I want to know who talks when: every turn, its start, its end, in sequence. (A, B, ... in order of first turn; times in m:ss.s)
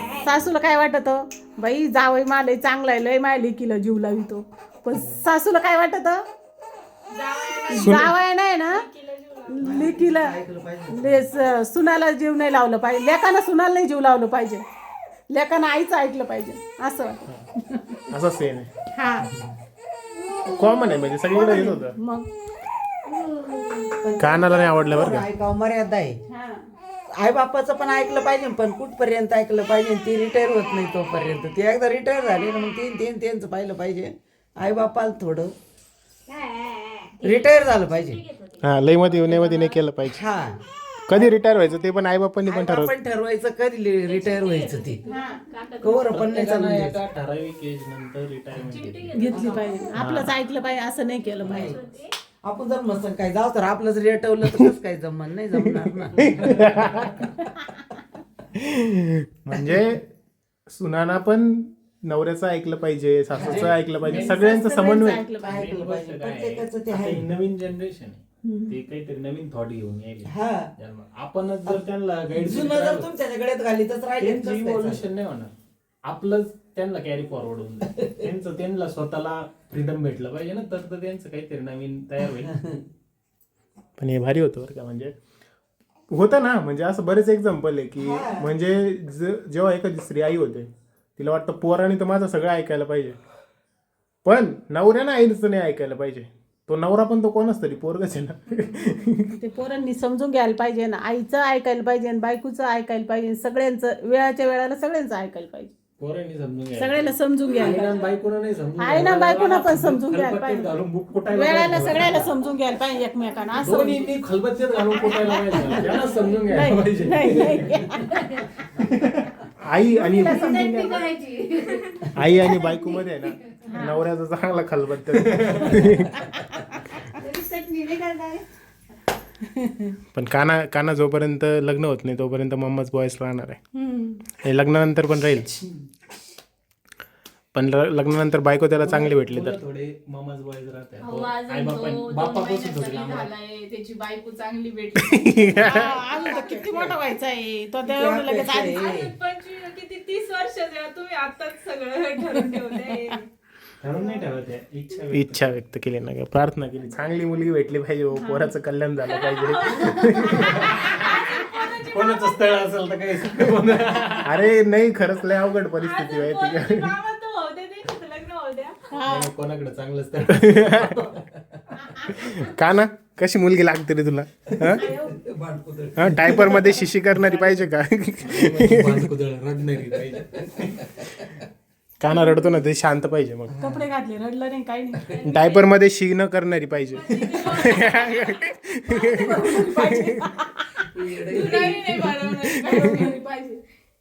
0:00.2-0:06.2 A
0:07.1-0:08.0 B
0:07.7-0:08.8 A
0:07.7-0:08.1 C
0:08.6-0:09.9 B
0:09.6-0:10.4 A
0:09.6-0:11.4 D
0:10.9-0:14.6 A
0:15.3-0:18.0 A
0:18.1-0:18.7 C
0:18.9-0:19.3 A
0:20.4-0:22.0 C
0:21.3-0:22.3 A
0:23.3-0:23.8 A
0:24.0-0:26.2 D
0:24.2-0:25.3 C
0:26.3-0:26.6 A
0:27.1-0:35.5 D
0:37.2-0:38.6 B
0:37.2-0:38.2 D
0:38.6-0:40.2 C
0:39.3-0:39.7 B
0:40.0-0:40.6 D
0:41.1-0:42.9 C
0:42.5-0:45.0 D
0:44.0-0:46.0 B
0:45.1-0:45.4 A
0:45.8-0:47.0 D
0:46.0-0:49.3 E
0:48.5-0:49.8 B
0:49.2-0:51.7 A
0:50.0-0:50.4 C
0:51.3-0:52.1 B
0:51.4-0:51.8 D
0:52.4-0:56.3 D
0:56.2-0:57.1 C
0:56.2-0:57.0 E
0:58.5-1:00.1 C
1:00.7-1:05.2 C
1:03.3-1:03.8 D
1:03.4-1:13.1 E
1:04.0-1:05.5 A
1:05.4-1:07.3 D
1:10.2-1:10.7 D
1:12.3-1:15.1 D
1:14.2-1:15.5 E
1:16.0-1:22.5 E
1:24.0-1:25.1 C
1:26.1-1:33.2 C
1:28.0-1:28.5 D
1:34.2-1:39.3 C
1:39.4-1:45.7 A
1:46.0-1:52.3 E
1:46.7-1:48.1 A
1:48.8-1:50.7 A
1:51.3-1:54.1 A
1:53.6-1:57.9 E
1:55.1-1:56.0 A
1:56.5-1:58.2 A
1:58.7-1:59.4 E
1:59.6-2:01.2 C
2:00.1-2:00.6 A
2:02.1-2:06.2 C
2:05.3-2:06.0 E
2:07.4-2:08.4 A
2:10.1-2:13.6 C
2:13.8-2:14.1 A
2:14.4-2:15.5 C
2:17.5-2:19.6 C
2:18.8-2:23.3 E
2:21.0-2:26.5 B
2:25.0-2:25.9 C
2:25.7-2:28.8 A
2:27.8-2:29.1 D
2:28.7-2:33.2 B
2:32.3-2:32.9 A
2:33.8-2:35.5 E
2:35.1-2:40.8 C
2:39.1-2:41.8 B
2:40.4-2:44.4 E
2:44.2-2:47.0 C
2:45.8-2:49.0 B
2:48.9-2:49.3 A
2:49.0-2:51.1 E
2:50.4-2:51.0 C
2:52.1-2:54.9 C
2:54.6-2:56.8 D
2:54.8-2:55.2 A
2:56.0-2:59.1 C
2:57.2-2:57.6 E
2:58.2-3:00.8 E
3:02.0-3:03.6 C
3:02.1-3:02.4 A
3:03.6-3:05.5 A
3:05.2-3:10.2 C
3:08.9-3:10.8 A
3:11.0-3:12.1 D
3:11.4-3:12.4 B
3:12.2-3:13.6 A
3:12.7-3:13.0 C